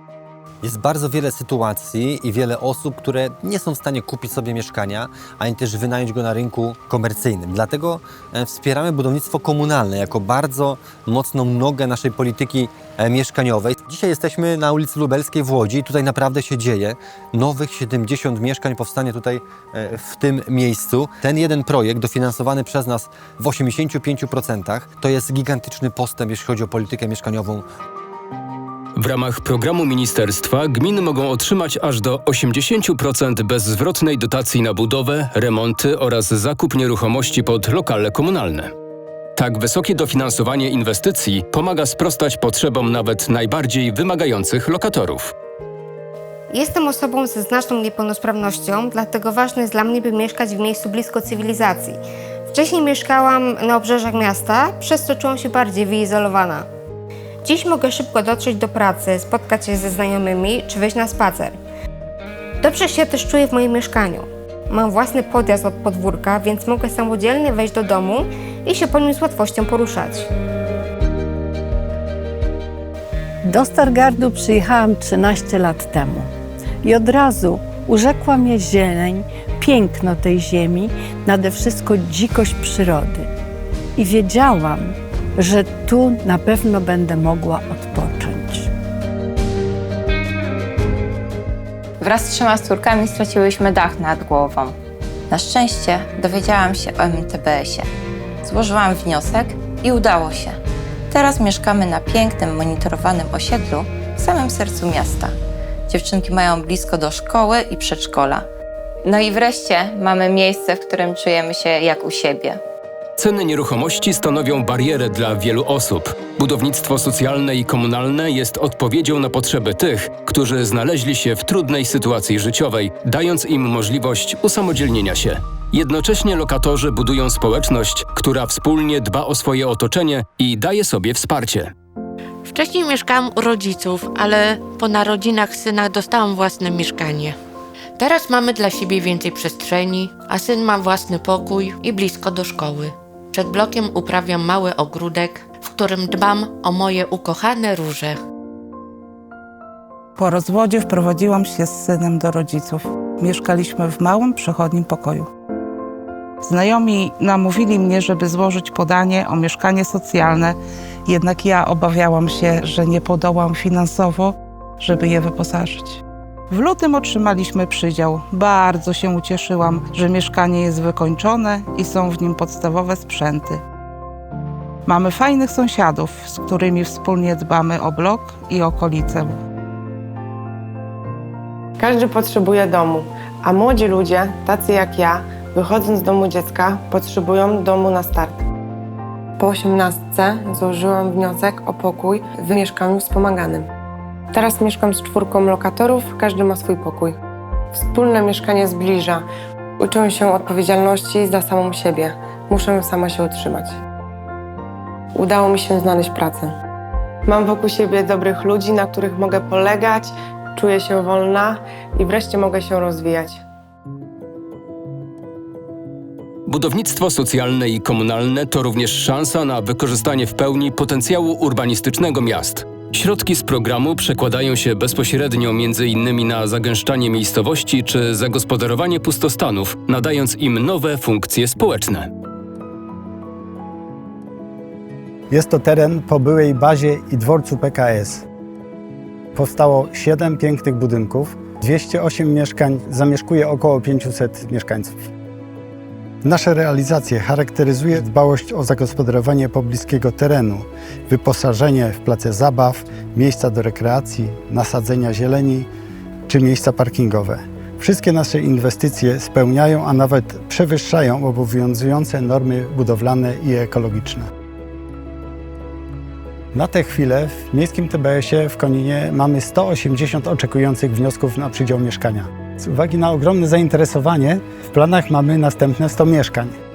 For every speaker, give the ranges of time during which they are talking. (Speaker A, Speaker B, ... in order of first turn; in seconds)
Speaker A: 0.6-27.7
Speaker B: 29.0-38.7, 39.4-45.3, 113.2-131.7, 216.5-232.1
Speaker C: 46.5-52.0, 52.5-56.7, 57.4-61.6, 62.6-70.3
Speaker D: 73.5-76.3, 76.8-83.3, 84.0-88.7
Speaker E: 92.0-94.8, 95.3-97.9, 98.5-100.6, 101.1-105.3, 105.9-108.5, 109.0-112.6
Speaker F: 132.4-137.4, 138.0-148.2
Speaker G: 150.2-155.3, 156.4-173.6, 174.9-179.4
Speaker H: 181.8-188.4, 189.4-193.7, 194.3-197.2, 197.7-199.3, 199.8-203.8, 205.2-206.6, 207.3-213.4
Speaker I: 235.3-238.3, 239.3-245.0, 246.2-255.7, 256.3-264.3, 266.5-276.6